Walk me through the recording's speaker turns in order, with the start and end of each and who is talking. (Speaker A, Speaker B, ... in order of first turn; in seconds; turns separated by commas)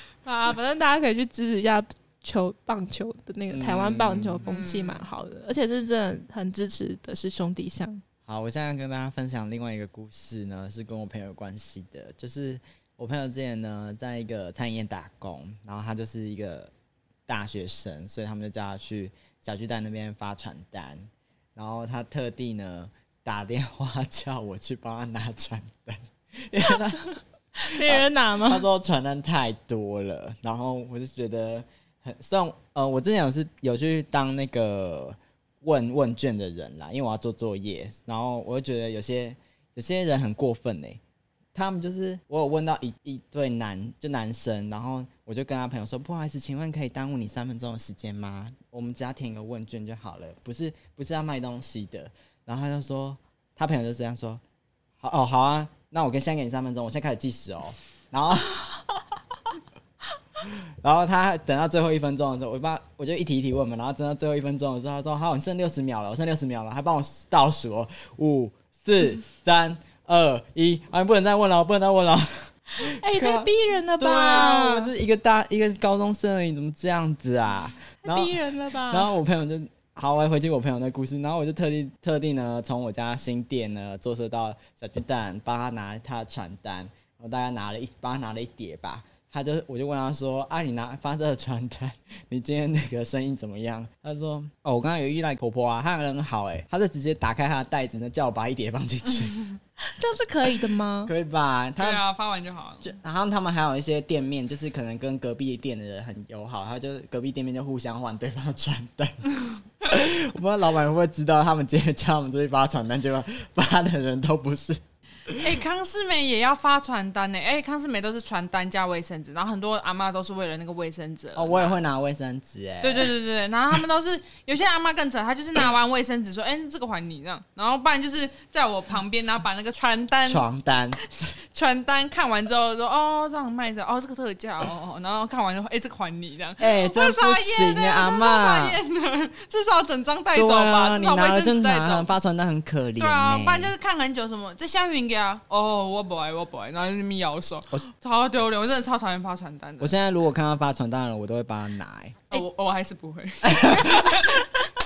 Speaker A: 0.2-8.0, Speaker B: 3.5-4.4, Speaker C: 4.4-5.0, Speaker B: 8.2-16.7, Speaker B: 17.3-21.0, Speaker B: 21.6-41.0, Speaker A: 26.9-28.6, Speaker B: 41.5-54.4, Speaker B: 55.0-58.6, Speaker B: 60.4-99.3, Speaker A: 72.8-74.9, Speaker A: 78.0-79.1, Speaker A: 99.8-101.1, Speaker B: 101.0-102.0, Speaker C: 101.8-102.9, Speaker B: 102.8-109.2, Speaker B: 109.8-115.6, Speaker C: 115.4-121.8, Speaker B: 121.3-123.1, Speaker C: 122.8-130.5, Speaker B: 130.2-131.3, Speaker C: 131.0-142.1, Speaker B: 136.6-138.8, Speaker B: 140.3-143.7, Speaker C: 143.0-149.9, Speaker B: 149.8-152.4, Speaker C: 152.3-154.5, Speaker B: 153.4-154.3